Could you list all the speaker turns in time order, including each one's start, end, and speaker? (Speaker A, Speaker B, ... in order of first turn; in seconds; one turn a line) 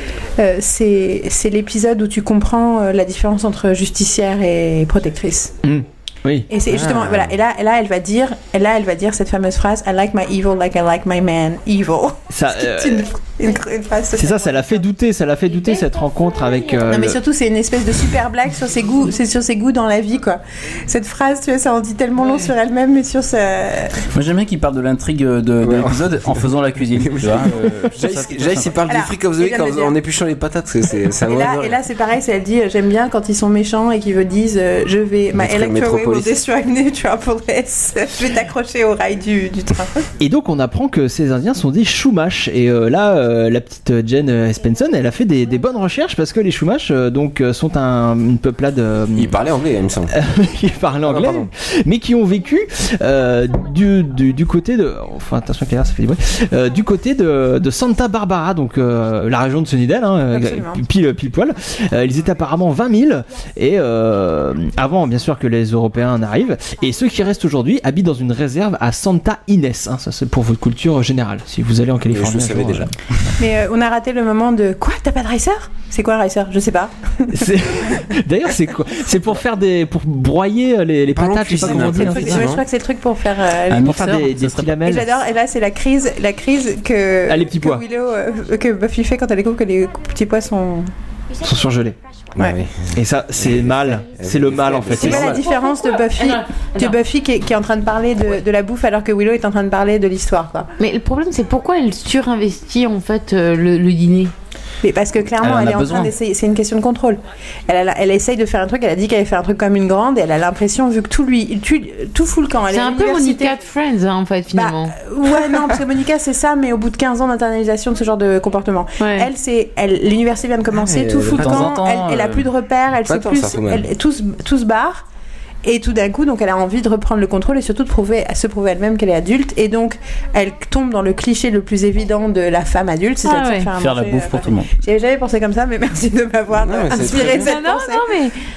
Speaker A: 0.4-5.5
Speaker B: 5.6-6.5
Speaker A: 6.5-14.5
Speaker C: 6.7-7.3
Speaker B: 12.3-13.1
Speaker B: 14.1-17.2
Speaker A: 16.9-24.0
Speaker D: 24.1-28.8
Speaker C: 25.6-31.8
Speaker A: 28.9-29.9
Speaker A: 31.2-40.0
Speaker C: 35.3-36.3
Speaker B: 40.2-49.4
Speaker C: 49.1-50.1
Speaker B: 50.1-72.9
Speaker C: 51.0-51.5
Speaker A: 60.3-60.8
Speaker C: 72.1-72.9
Speaker A: 73.4-77.5
Speaker B: 77.3-82.5
Speaker C: 81.1-82.6
Speaker A: 81.6-84.0
Speaker D: 83.7-84.8
Speaker B: 83.8-85.1
Speaker A: 84.8-90.9
Speaker B: 87.2-87.8
Speaker B: 91.4-92.0
Speaker C: 92.3-92.9
Speaker B: 92.9-95.4
Speaker C: 93.4-95.4
Speaker A: 95.0-100.7
Speaker E: 96.0-97.0
Speaker E: 100.8-104.3
Speaker A: 104.8-113.6
Speaker D: 105.4-106.1
Speaker E: 112.7-115.0
Speaker A: 114.5-125.0
Speaker E: 119.0-119.3
Speaker C: 120.7-121.8
Speaker D: 121.3-122.5
Speaker C: 123.1-123.8
Speaker A: 125.6-138.1
Speaker E: 133.2-133.7
Speaker D: 133.7-134.7
Speaker C: 136.6-137.5
Speaker E: 137.0-138.3